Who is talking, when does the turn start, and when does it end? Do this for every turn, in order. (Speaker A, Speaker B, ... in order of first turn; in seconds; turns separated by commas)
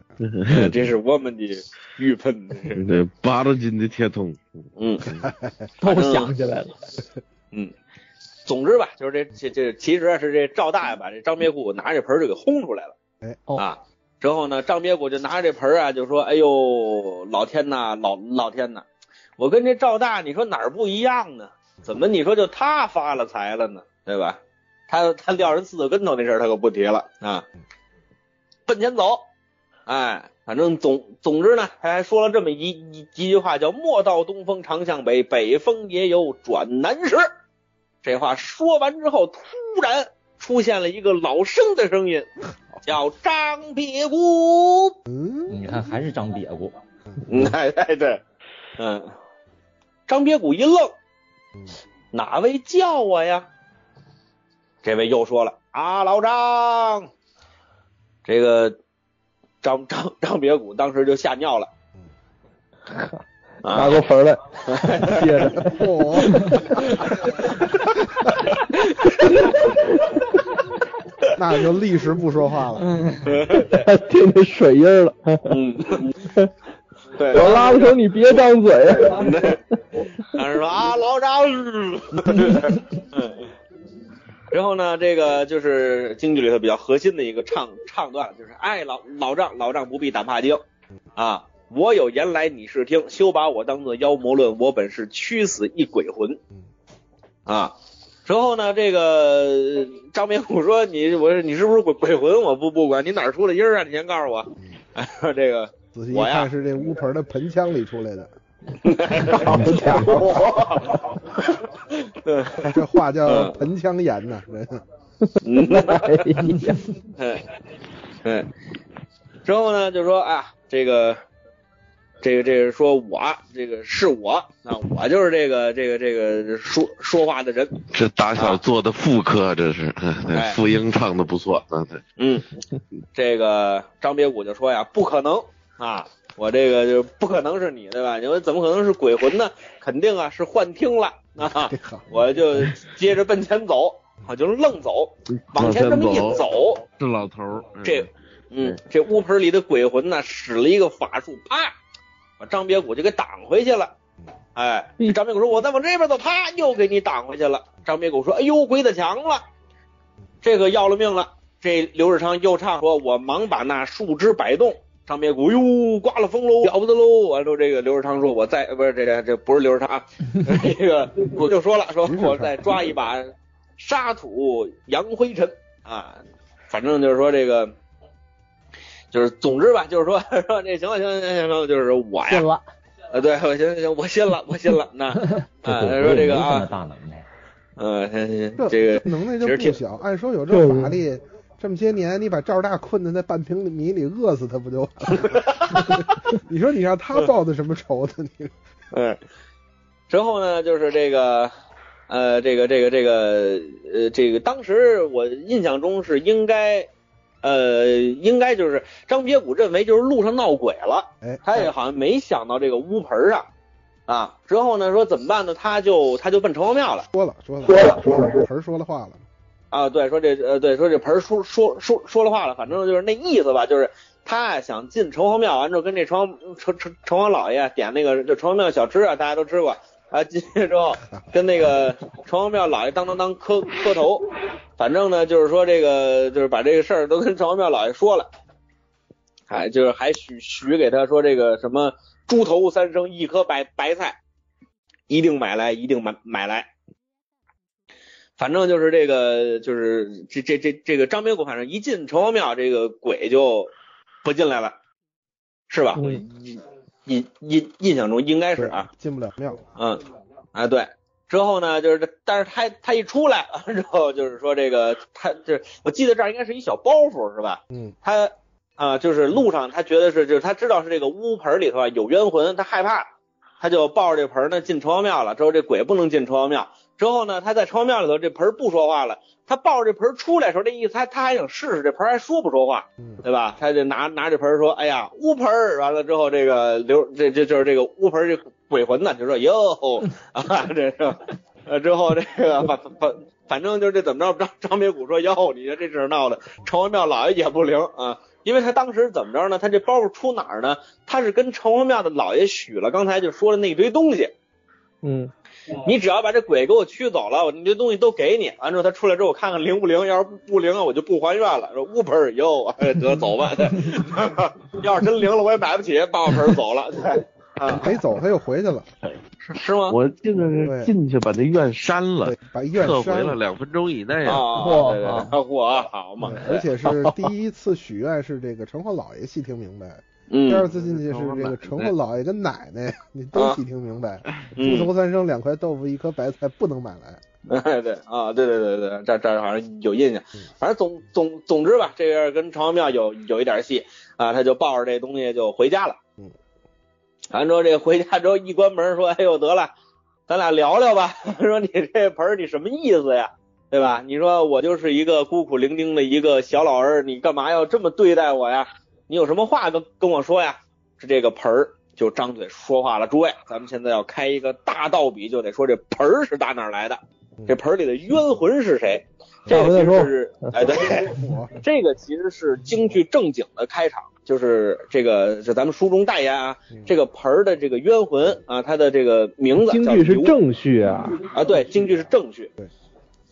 Speaker A: 0.2-0.8, Speaker B: 0.5-2.9, Speaker A: 2.7-5.3, Speaker B: 4.8-5.1, Speaker C: 5.2-5.5, Speaker D: 5.8-6.8, Speaker B: 5.8-6.3, Speaker B: 8.4-12.9, Speaker B: 13.6-18.8, Speaker B: 19.4-27.4, Speaker B: 28.7-29.3, Speaker B: 29.9-37.3, Speaker B: 38.0-42.3, Speaker B: 42.8-45.0, Speaker C: 45.1-45.6, Speaker E: 45.5-46.8, Speaker B: 47.2-48.2, Speaker B: 48.8-49.2, Speaker B: 50.1-50.9, Speaker B: 52.1-53.5, Speaker B: 54.8-57.1, Speaker B: 58.2-58.8, Speaker B: 59.6-61.7, Speaker B: 63.6-64.0, Speaker F: 63.7-66.8, Speaker B: 64.7-65.4, Speaker C: 65.6-66.8, Speaker B: 68.7-69.4, Speaker C: 71.3-73.1, Speaker B: 73.2-73.8, Speaker F: 73.6-75.6, Speaker B: 75.5-76.1, Speaker F: 76.2-76.5, Speaker B: 77.2-78.0, Speaker F: 77.3-79.5, Speaker B: 79.1-79.6, Speaker B: 80.2-83.5, Speaker B: 84.5-90.6, Speaker B: 91.2-96.4, Speaker B: 97.5-97.7, Speaker B: 98.2-106.5, Speaker C: 105.9-108.3, Speaker B: 108.8-112.7, Speaker F: 109.3-110.4, Speaker C: 112.6-114.8, Speaker B: 113.2-113.6, Speaker B: 115.4-116.5, Speaker F: 115.7-116.8, Speaker D: 116.5-116.7, Speaker B: 117.1-117.5, Speaker B: 118.2-118.5, Speaker B: 119.4-121.2, Speaker B: 122.2-128.6, Speaker A: 127.8-132.0, Speaker B: 130.3-130.6, Speaker B: 132.2-132.5, Speaker B: 133.1-146.8, Speaker C: 141.4-142.1, Speaker A: 145.3-148.1, Speaker B: 147.8-151.7, Speaker B: 152.4-153.9, Speaker B: 154.5-159.4, Speaker B: 160.4-177.7, Speaker C: 172.1-172.6, Speaker B: 179.1-182.5, Speaker D: 182.2-182.6, Speaker B: 183.1-186.7, Speaker E: 185.6-187.2, Speaker B: 187.8-189.8, Speaker C: 188.6-198.5, Speaker F: 190.5-190.9, Speaker B: 195.2-196.0, Speaker B: 198.9-199.2, Speaker B: 200.1-201.5, Speaker B: 202.1-206.9, Speaker B: 207.4-213.5, Speaker B: 214.1-217.1, Speaker C: 217.1-219.2, Speaker F: 217.7-218.4, Speaker B: 219.7-238.3, Speaker B: 239.5-244.2, Speaker B: 245.1-246.7, Speaker B: 248.4-253.7, Speaker B: 254.2-254.8, Speaker B: 255.7-258.9, Speaker C: 258.6-259.7, Speaker B: 259.8-260.0, Speaker B: 260.5-273.1, Speaker C: 267.7-267.9, Speaker B: 273.6-304.3, Speaker F: 305.0-305.3, Speaker B: 305.8-318.0, Speaker C: 317.7-318.9, Speaker B: 319.4-320.0, Speaker A: 319.9-324.5, Speaker C: 320.6-320.9, Speaker C: 322.2-323.4, Speaker B: 324.2-326.7, Speaker D: 324.5-325.3, Speaker C: 326.2-337.2, Speaker B: 330.3-330.7, Speaker A: 330.9-331.9, Speaker B: 333.3-333.6, Speaker B: 334.6-334.9, Speaker B: 337.5-346.0, Speaker B: 347.3-349.7, Speaker B: 350.3-380.4, Speaker F: 369.5-370.9, Speaker C: 371.1-371.6, Speaker F: 379.6-381.2, Speaker B: 381.2-382.5